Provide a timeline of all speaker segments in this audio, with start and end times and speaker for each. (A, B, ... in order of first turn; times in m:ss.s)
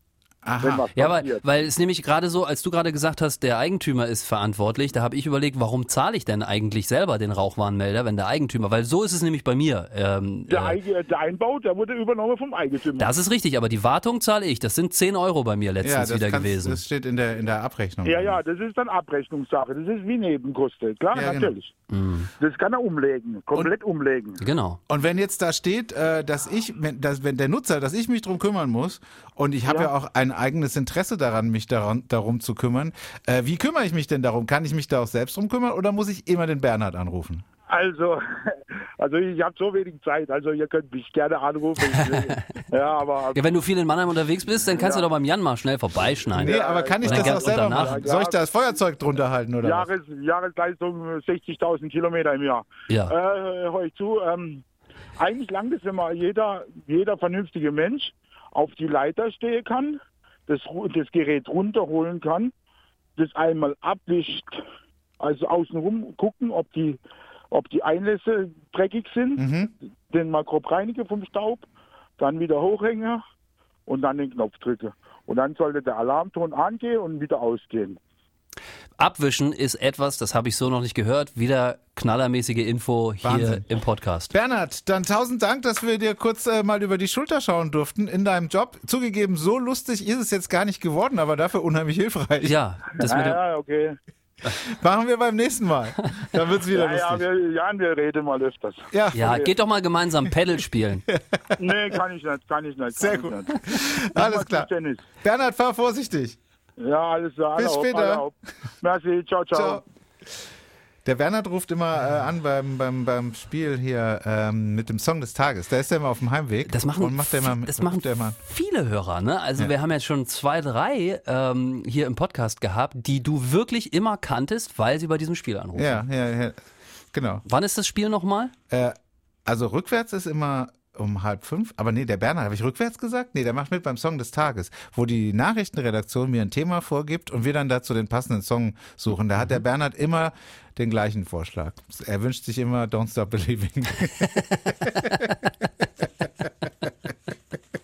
0:00.4-0:00.9 A
0:00.6-0:01.4 B
0:01.0-0:10.8 C
0:10.5-0:13.1 B
0:13.0-0:16.8 C
0:15.8-0:18.4 A
0:18.0-0:21.7 B
0:21.1-0:21.5 A
0:21.9-0:22.3 C
0:22.4-0:24.4 B
0:24.4-0:24.8 C
0:24.9-0:37.4 A
0:29.7-0:29.9 B
0:37.7-0:43.4 B
0:41.9-0:42.6 C
0:43.3-0:48.0 C
0:44.7-0:45.1 B
0:46.4-0:48.4 B
0:46.4-0:49.9 A
0:49.6-0:54.6 B
0:52.9-0:53.2 C
0:55.2-1:02.5 B
1:03.2-1:04.6 B
1:05.2-1:07.0 B
1:07.5-1:09.4 B
1:09.4-1:09.7 A
1:10.1-1:11.6 B
1:12.2-1:13.2 B
1:13.9-1:18.0 B
1:19.0-1:24.3 C
1:23.2-1:23.6 A
1:24.3-1:32.6 A
1:32.4-1:33.4 C
1:33.0-1:34.0 B
1:34.6-1:37.2 A
1:36.7-1:39.5 B
1:38.9-1:39.4 A
1:39.1-1:41.1 C
1:41.1-1:41.6 A
1:41.6-1:45.0 B
1:42.9-1:46.4 A
1:46.8-1:49.8 B
1:47.6-1:48.3 A
1:49.5-1:49.8 A
1:51.0-1:58.4 A
1:56.6-2:06.0 C
2:05.8-2:06.6 A
2:07.1-2:07.4 A
2:07.5-2:08.5 C
2:08.7-2:25.5 A
2:26.2-2:26.9 A